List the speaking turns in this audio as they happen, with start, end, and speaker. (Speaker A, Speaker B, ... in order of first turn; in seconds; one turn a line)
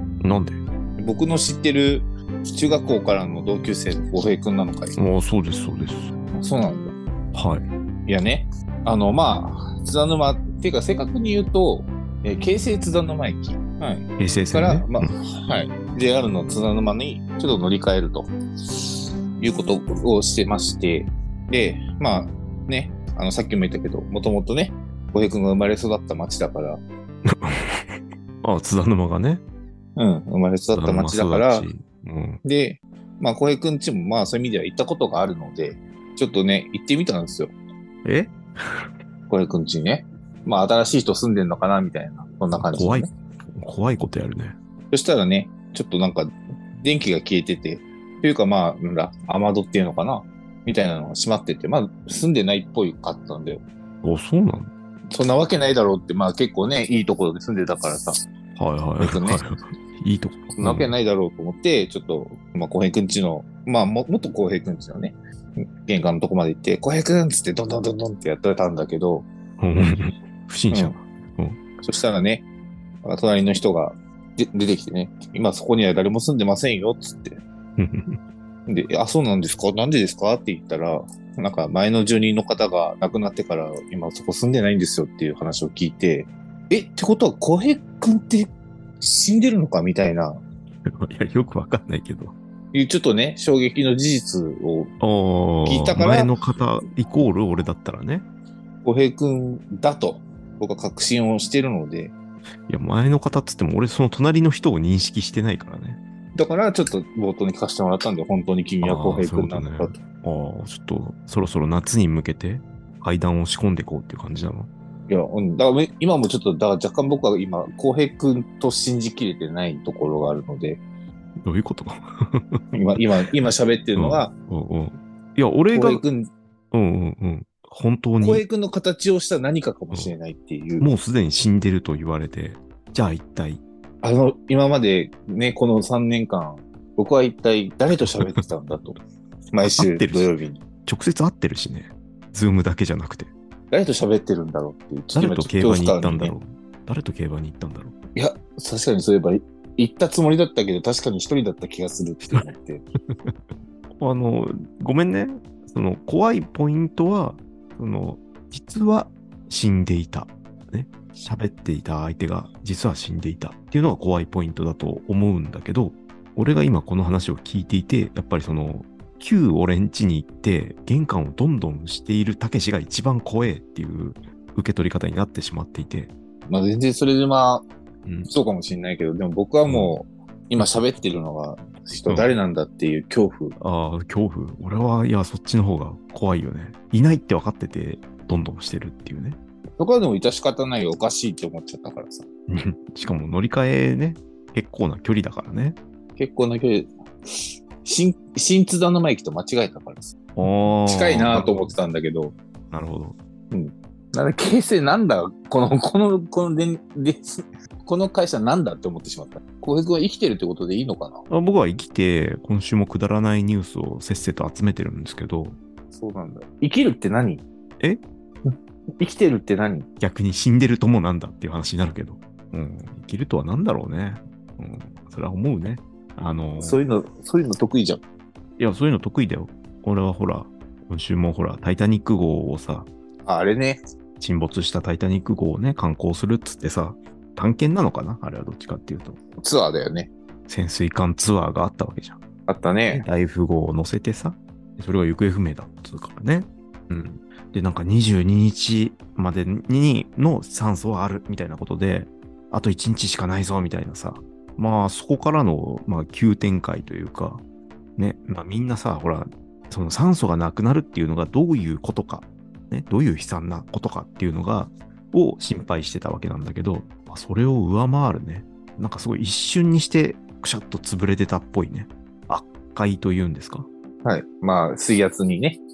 Speaker A: 0.2-0.6
Speaker B: 1.0-5.0
Speaker A: 5.0-6.1
Speaker B: 6.3-6.9
Speaker A: 7.3-7.6
Speaker B: 8.1-26.8
Speaker A: 14.2-15.1
Speaker A: 27.3-29.4
Speaker B: 29.9-31.7
Speaker A: 30.7-32.4
Speaker B: 32.4-37.5
Speaker A: 38.0-38.9
Speaker B: 39.3-43.1
Speaker A: 42.6-44.5
Speaker B: 44.9-53.6
Speaker A: 54.0-54.7
Speaker B: 55.1-58.1
Speaker A: 58.5-60.9
Speaker B: 59.0-59.4
Speaker B: 60.6-65.2
Speaker B: 65.8-69.3
Speaker A: 69.6-71.6
Speaker B: 71.8-72.5
Speaker B: 73.0-77.4
Speaker A: 77.8-78.2
Speaker B: 78.7-90.4
Speaker A: 90.9-92.3
Speaker B: 92.7-94.9
Speaker A: 95.0-98.2
Speaker B: 95.6-96.3
Speaker B: 98.8-102.1
Speaker A: 102.7-106.0
Speaker B: 106.3-110.0
Speaker A: 108.8-114.7
Speaker B: 115.1-120.8
Speaker A: 121.4-122.6
Speaker B: 122.7-124.3
Speaker A: 124.0-126.0
Speaker B: 125.7-126.3
Speaker A: 126.7-128.4
Speaker B: 128.2-130.9
Speaker A: 130.8-133.6
Speaker B: 134.0-139.0
Speaker A: 137.9-138.2
Speaker B: 139.5-140.6
Speaker A: 139.6-140.3
Speaker A: 140.8-143.3
Speaker B: 143.7-146.3
Speaker A: 145.1-147.9
Speaker B: 148.2-152.8
Speaker A: 154.0-176.1
Speaker B: 176.5-177.7
Speaker B: 178.3-183.5
Speaker A: 179.6-179.9
Speaker A: 183.6-189.4
Speaker B: 189.8-192.2
Speaker A: 192.5-195.8
Speaker B: 196.2-196.9
Speaker B: 197.8-200.1
Speaker A: 200.3-201.7
Speaker B: 200.8-202.3
Speaker A: 202.7-203.2
Speaker B: 203.5-211.2
Speaker A: 211.3-215.6
Speaker B: 215.9-217.4
Speaker B: 218.4-219.9
Speaker A: 220.0-226.8
Speaker B: 226.6-228.0
Speaker A: 228.6-232.9
Speaker B: 233.2-233.8
Speaker A: 234.2-239.2
Speaker B: 239.4-240.1
Speaker A: 240.5-242.2
Speaker B: 242.5-243.1
Speaker A: 242.9-257.4
Speaker A: 258.0-273.7
Speaker B: 274.0-275.6